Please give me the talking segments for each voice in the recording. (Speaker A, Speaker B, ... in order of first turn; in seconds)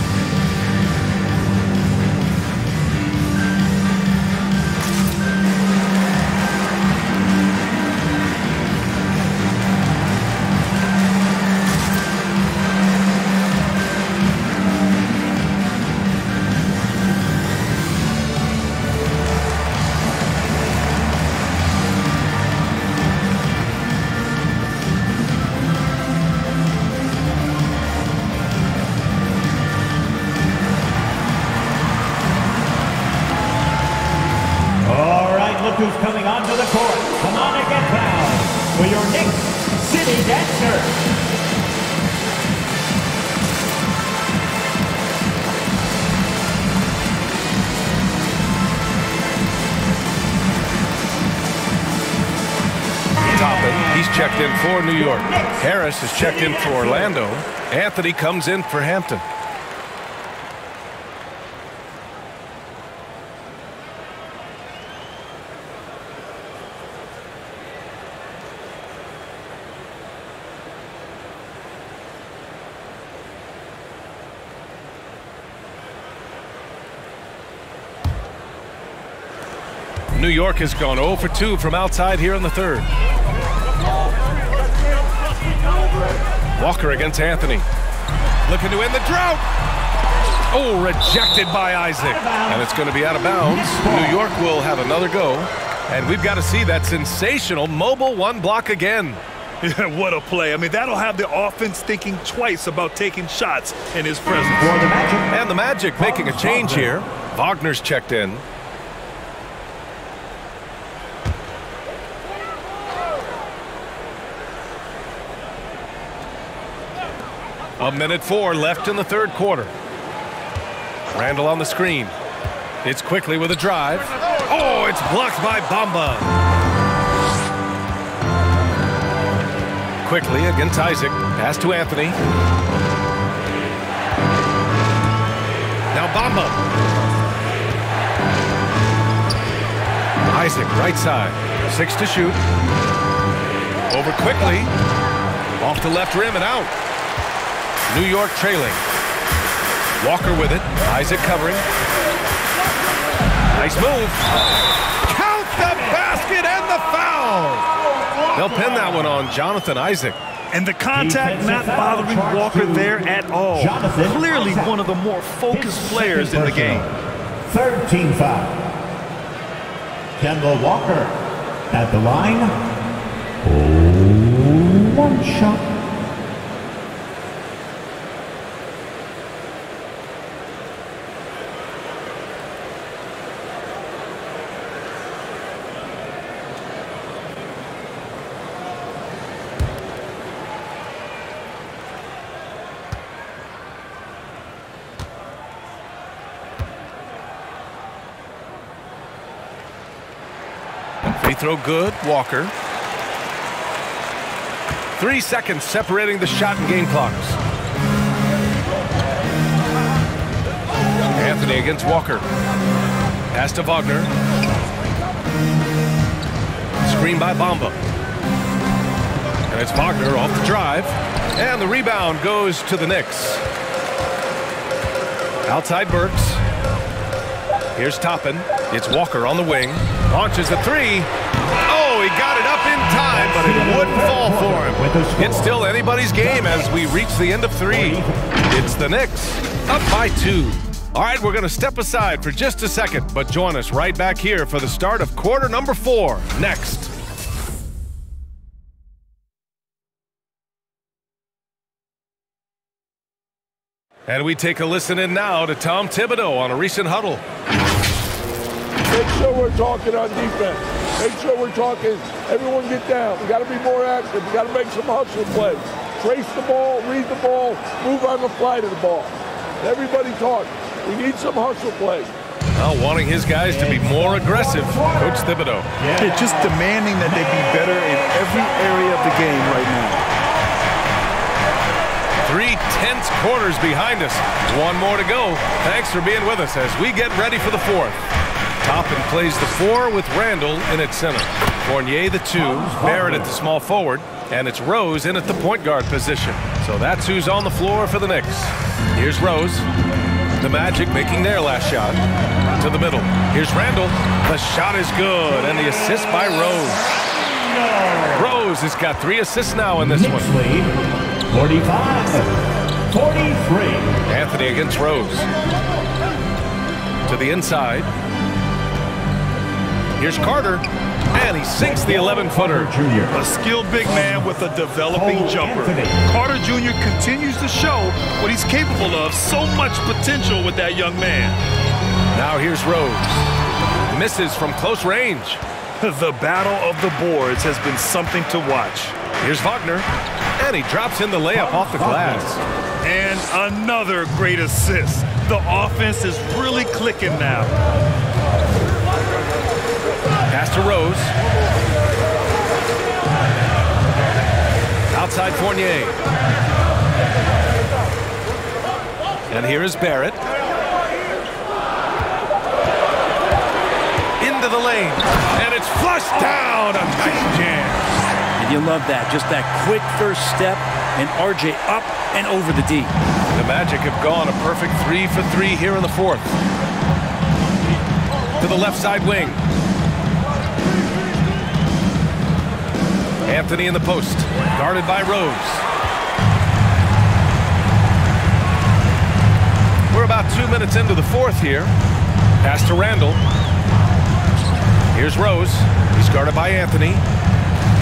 Speaker A: 34.8-41.0, 53.3-54.0, 55.0-57.2, 92.0-92.7, 93.4-94.2, 104.5-105.3, 106.0-107.0, 158.2-159.2, 160.9-164.8, 165.5-166.9, 167.5-168.6, 170.2-171.2, 171.7-172.6, 173.4-175.7, 233.1-235.5, 237.7-238.2, 273.5-275.2, 275.8-277.5, 292.4-293.3, 307.1-308.4, 309.8-310.7, 311.3-313.9, 321.6-323.2, 323.8-326.0, 341.3-342.3
Speaker B: 53.3-59.2, 80.1-82.9, 86.6-87.7, 88.5-89.4, 90.5-99.2, 105.3-108.4, 117.8-119.7, 121.1-122.1, 122.8-126.3, 130.0-132.2, 135.9-136.6, 140.3-142.4, 143.9-144.7, 145.6-146.7, 147.9-148.8, 150.0-151.7, 153.6-154.2, 155.1-157.7, 158.3-160.2, 201.2-202.5, 205.0-207.4, 211.2-212.2, 213.3-214.1, 216.8-217.8, 219.5-223.4, 225.5-226.4, 227.8-231.1, 231.7-246.9, 254.1-257.2, 272.6-275.7, 282.2-288.0, 288.6-299.7, 300.4-302.0, 302.6-306.8, 308.1-310.3, 314.1-315.3, 317.1-317.9, 320.0-322.7, 332.1-333.3, 333.9-335.4, 339.2-339.9, 340.4-342.4, 350.3-351.1, 354.9-356.0, 359.3-360.2, 364.2-367.8, 373.3-376.3, 378.4-379.4, 383.3-385.6, 389.9-391.7, 392.4-393.2, 394.9-397.0
Speaker C: 99.6-104.8, 160.5-166.9, 276.0-280.0, 323.1-331.4, 335.8-339.0, 342.8-347.6
Speaker D: 258.9-272.1
Speaker E: 368.4-372.9